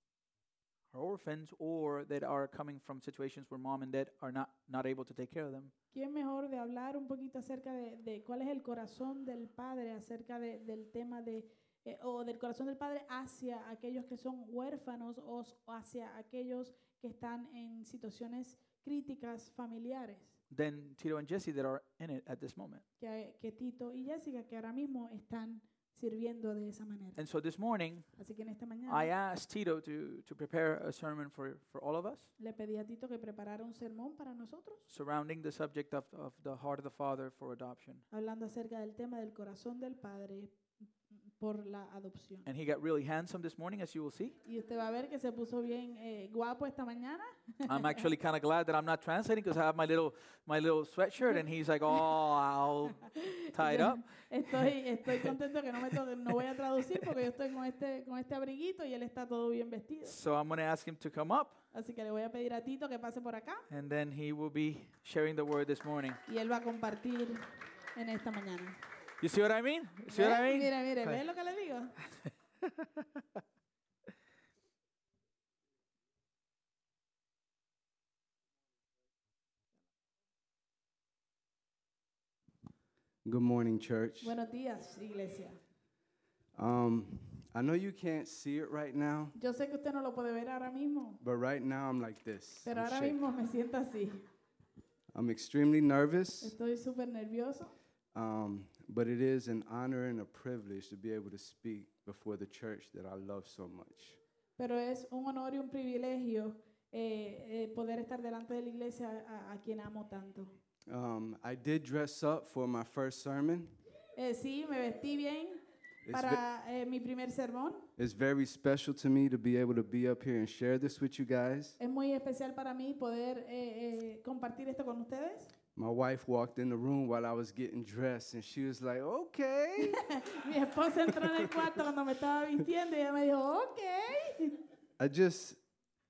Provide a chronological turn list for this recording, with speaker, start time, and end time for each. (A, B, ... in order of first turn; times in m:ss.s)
0:00.9-0:05.7 A
0:05.9-0:20.3 B
0:20.5-0:22.8 A
0:23.0-0:27.2 B
0:27.2-0:28.1 A
0:28.2-0:29.1 B
0:28.9-0:32.3 A
0:32.4-0:34.8 B
0:34.9-0:38.0 A
0:38.1-0:40.6 B
0:41.4-0:42.5 B
0:42.4-0:44.4 A
0:44.4-0:48.1 B
0:47.7-0:55.3 A
0:51.2-0:52.0 B
0:53.0-1:00.1 B
1:00.0-1:01.6 A
1:01.7-1:03.6 B
1:03.7-1:06.2 A
1:06.2-1:08.8 B
1:09.2-1:11.2 A
1:10.1-1:11.9 B
1:23.2-1:24.4 C
1:24.2-1:25.6 B
1:26.5-1:29.3 C
1:29.3-1:31.2 B
1:31.2-1:33.2 C
1:32.6-1:34.2 B
1:35.1-1:36.5 C
1:36.4-1:37.7 B
1:38.1-1:44.2 C
1:44.6-1:50.5 B
1:50.9-1:53.7 C
1:54.2-1:55.6 B
1:56.0-1:56.4 C
1:56.1-1:57.9 B
1:58.0-2:01.8 C
2:01.8-2:05.5 B
2:05.8-2:10.0 C
2:09.8-2:14.6 B
2:15.0-2:15.6 C